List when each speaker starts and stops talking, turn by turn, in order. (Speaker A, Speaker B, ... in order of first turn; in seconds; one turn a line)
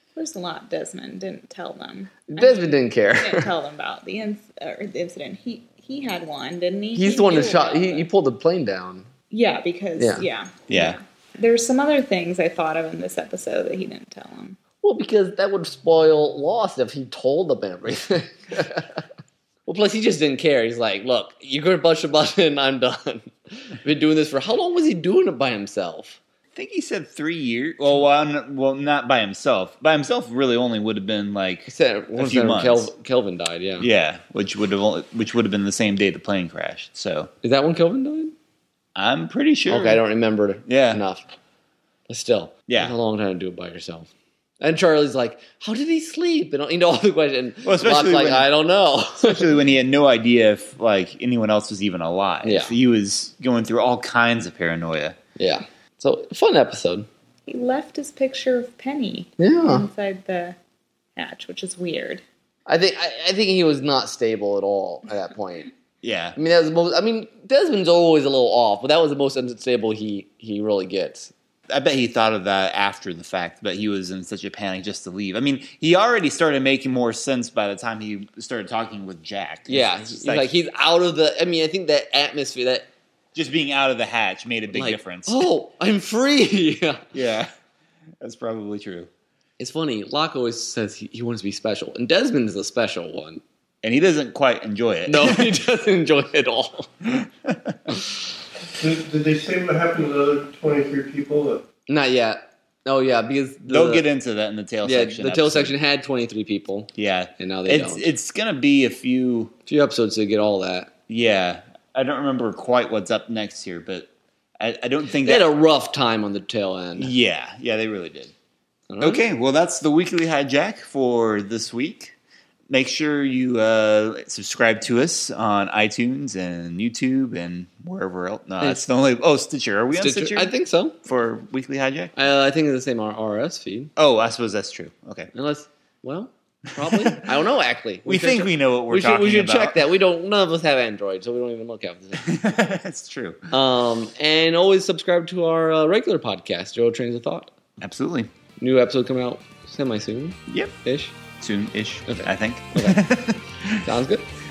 Speaker A: 0.1-8.1
Speaker B: 2.3-3.5
Speaker B: 7.0-9.1
Speaker A: 9.3-14.6
Speaker B: 10.0-10.2
Speaker C: 10.7-10.9
Speaker B: 14.8-19.0
Speaker B: 19.6-26.2
Speaker C: 26.5-32.9
Speaker B: 31.7-33.9
Speaker C: 33.8-37.3
Speaker B: 37.4-38.3
Speaker C: 39.0-40.0
Speaker B: 39.7-41.3
Speaker C: 40.7-41.0
Speaker B: 42.1-49.5
Speaker C: 42.7-42.9
Speaker C: 47.6-48.5
Speaker C: 49.2-55.1
Speaker B: 52.4-52.7
Speaker B: 55.4-57.1
Speaker A: 57.5-60.6
Speaker B: 59.4-59.9
Speaker A: 61.2-62.2
Speaker B: 62.7-65.7
Speaker C: 66.0-66.4
Speaker B: 66.3-71.3
Speaker C: 71.7-80.5
Speaker B: 79.7-82.9
Speaker C: 83.3-85.4
Speaker B: 84.7-87.0
Speaker C: 87.1-87.5
Speaker C: 88.2-89.1
Speaker B: 89.6-93.4
Speaker C: 93.8-95.5
Speaker B: 95.1-96.9
Speaker C: 97.1-97.9
Speaker D: 98.8-101.6
Speaker B: 101.9-104.1
Speaker C: 103.7-105.7
Speaker B: 104.8-108.1
Speaker C: 107.0-109.5
Speaker B: 109.7-110.9
Speaker C: 111.1-115.5
Speaker B: 115.2-117.1
Speaker C: 117.0-118.3
Speaker B: 118.9-119.2
Speaker C: 119.0-122.1
Speaker C: 122.7-130.5
Speaker B: 129.9-131.0
Speaker C: 131.0-132.1
Speaker B: 132.1-133.9
Speaker C: 133.9-135.3
Speaker B: 135.3-142.4
Speaker C: 136.9-137.2
Speaker C: 138.1-139.8
Speaker C: 142.2-143.4
Speaker B: 143.5-147.5
Speaker C: 147.8-148.3
Speaker B: 148.6-151.2
Speaker C: 150.5-150.7
Speaker C: 151.4-153.9
Speaker B: 152.1-153.0
Speaker B: 153.8-154.3